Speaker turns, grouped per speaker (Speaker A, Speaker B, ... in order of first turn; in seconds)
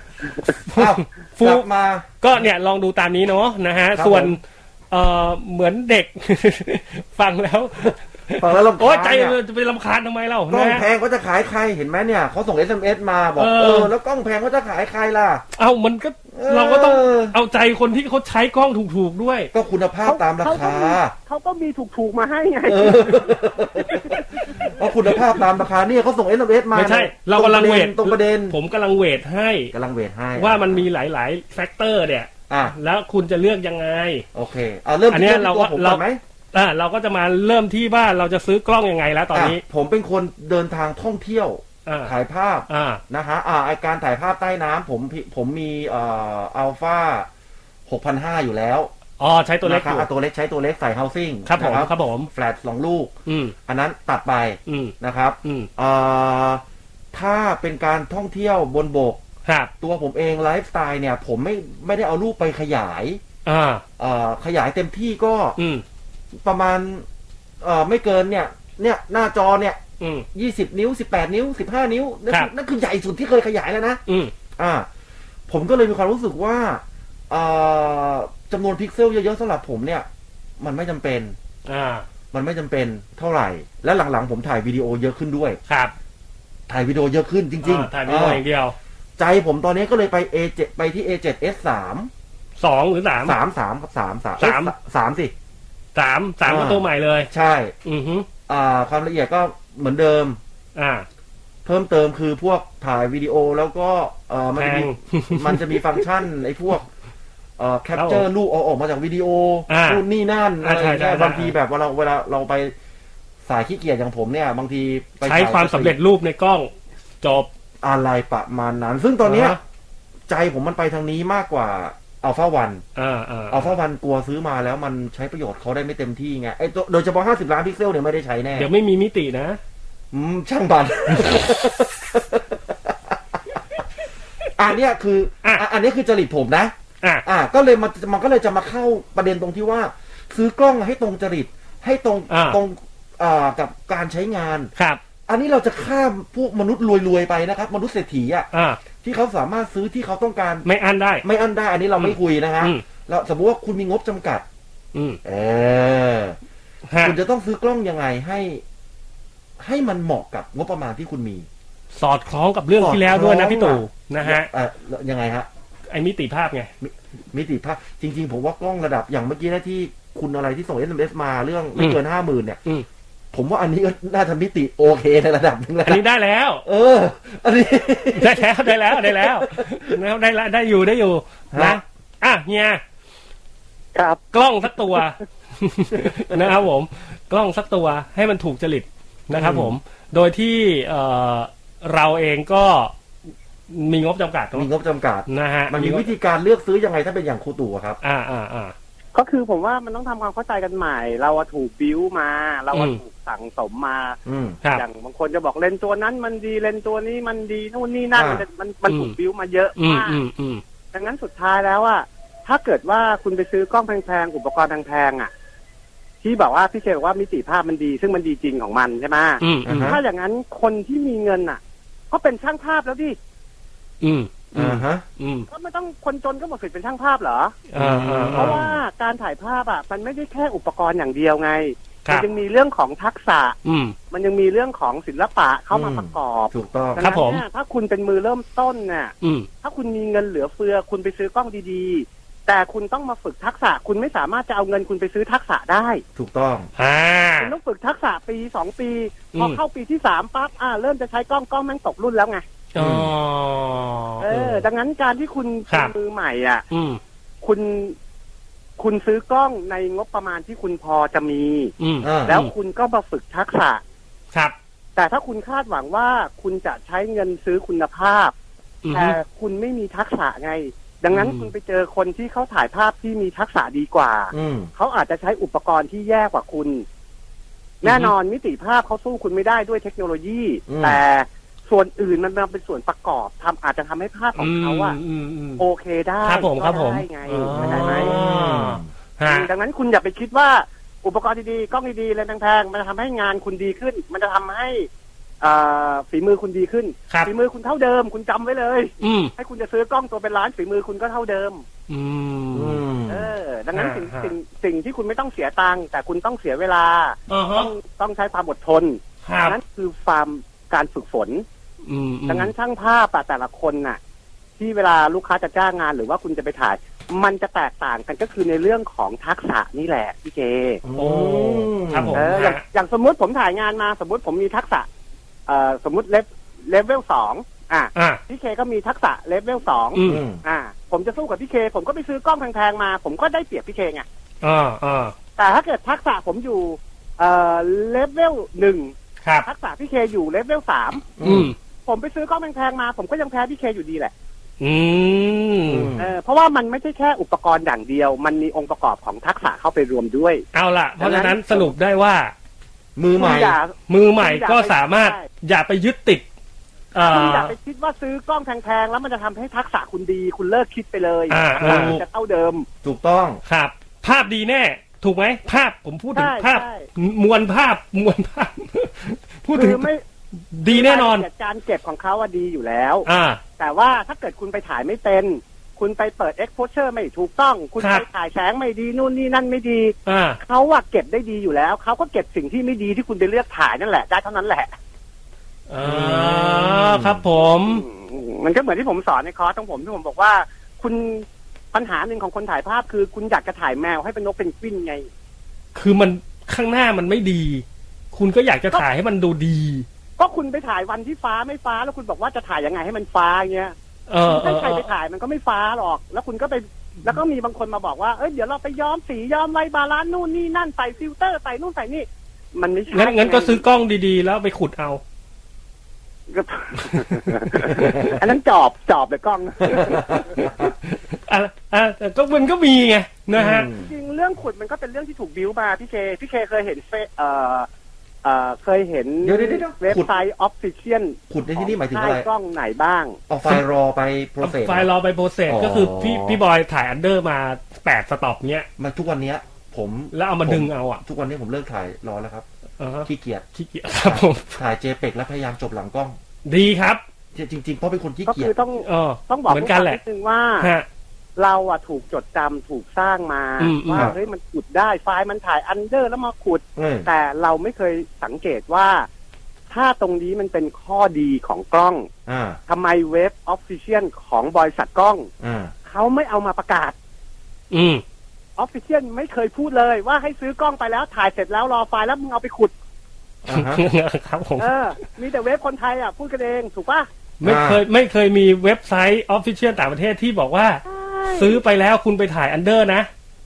Speaker A: 0.5-1.6, 2.2-10.8, 13.4-13.9, 15.6-19.5, 26.7-29.7, 30.4-34.2, 35.1-36.0, 36.5-39.6, 41.9-42.1, 42.7-43.0, 49.2-50.1, 51.5-52.3, 53.3-53.5, 54.7-55.7, 59.5-59.7, 63.5-63.8, 65.6-65.8, 70.0-70.3, 74.1-74.3, 81.7-82.0, 85.7-85.9, 87.6-88.8, 92.6-93.4, 94.4-94.7, 96.0-97.3, 97.8-98.3, 100.8-101.1, 104.6-106.0, 108.0-108.2, 109.7-110.0, 110.6-111.5, 115.2-116.7, 117.2-117.5, 119.2-119.6, 123.0-123.7, 128.6-129.6, 142.3-142.6, 148.5-148.8, 150.7-151.2, 152.0-152.8, 154.9-155.2, 156.9-157.2, 162.0-164.5, 165.9-166.7, 175.9-176.6, 178.2-182.8, 184.3-192.9, 193.7-194.7, 195.3-196.1, 198.0-198.8, 202.7-203.0, 208.9-209.1, 209.8-210.6, 219.4-220.0, 224.0-225.5, 227.7-228.6, 233.7-233.9, 237.0-237.4, 239.2-239.5, 246.8-247.5, 252.7-254.7, 256.7-257.0, 261.8-262.5, 268.8-269.2, 271.1-271.5, 277.8-278.1, 284.4-285.6, 286.2-289.5, 299.0-299.3, 301.9-302.8, 303.7-304.3, 307.3-307.7, 309.3-309.6, 311.9-312.5, 321.0-322.6, 327.9-328.2, 329.9-330.2, 334.4-335.1, 341.2-341.6, 344.6-345.9, 350.5-352.3, 353.9-356.2, 356.9-357.5, 361.3-362.0, 363.5-369.9, 370.5-371.2, 373.1-373.4, 380.1-380.4, 385.7-387.8, 395.8-399.9, 404.1-404.9, 412.9-415.0, 420.1-423.7, 434.4-438.7, 440.1-441.0, 442.8-444.6, 446.5-447.0, 448.8-450.0, 450.6-450.9, 453.6-454.1, 467.7-468.0, 473.5-474.7, 477.4-483.1
Speaker B: 0.7-2.1, 4.0-4.4, 8.4-9.4, 10.5-15.4, 16.3-17.4, 19.5-21.1, 22.7-28.6, 29.7-30.9, 32.5-32.8, 34.3-36.2, 39.3-47.3, 47.9-48.9, 49.6-53.1, 53.7-56.6, 57.1-59.2, 59.8-63.2, 64.0-65.6, 66.4-67.1, 67.6-69.8, 70.3-74.0, 74.6-74.9, 75.5-80.1, 80.6-81.4, 82.3-85.6, 86.7-88.4, 89.2-92.1, 93.2-95.3, 96.5-97.7, 98.5-100.4, 101.7-106.9, 107.6-112.7, 113.5-116.0, 117.8-119.6, 120.3-122.8, 123.5-128.7, 130.1-133.6, 134.6-136.7, 137.2-144.7, 145.3-148.5, 149.0-150.7, 151.2-154.4, 155.2-156.4, 157.0-158.6, 159.6-161.5, 162.8-165.5, 166.8-172.6, 173.3-176.0, 176.7-179.9, 181.5-181.8, 189.4-189.7, 194.5-198.0, 204.3-204.6, 208.2-208.4, 219.7-220.0, 224.6-225.0, 227.8-228.8, 235.7-237.1, 246.2-246.7, 252.8-253.1, 262.0-262.4, 274.3-274.7, 280.7-281.0, 287.5-288.9, 302.5-303.3, 320.8-322.3, 330.1-330.4, 341.2-341.5, 345.7-346.1, 353.0-353.6, 361.6-362.0, 362.8-363.4, 385.8-387.2, 419.8-420.6, 423.4-423.9, 429.2-430.1, 431.3-432.3, 433.3-434.9, 435.5-436.4, 438.8-442.5, 443.1-443.4, 444.0-446.2, 447.4-448.5, 456.8-457.1, 462.3-462.6, 465.4-465.7, 473.5-473.8, 477.4-477.8
Speaker C: 20.1-24.7, 183.9-184.2, 199.1-204.2, 204.8-210.2, 210.9-215.3, 216.2-223.2, 225.5-227.6, 228.3-233.6, 234.1-246.0, 247.4-252.4, 254.2-256.6, 257.4-258.0, 258.8-261.7, 262.3-263.8, 265.0-268.3, 268.9-276.9, 277.8-285.0, 285.6-288.1, 289.2-294.9, 295.4-301.6, 303.1-311.4, 312.3-314.0, 314.6-320.8, 322.1-324.9, 325.5-334.1, 335.4-341.1, 341.9-344.1, 346.0-350.4, 351.0-351.7, 353.2-355.3, 357.1-362.7, 366.1-366.9, 369.5-370.0, 370.7-373.1, 373.6-384.8, 387.5-395.1, 400.2-413.6, 416.3-420.5, 423.8-427.7, 428.2-433.2, 448.3-450.7, 451.4-459.1, 459.7-462.1, 462.7-465.3, 465.9-466.9, 468.6-472.7, 474.6-477.1, 480.9-481.6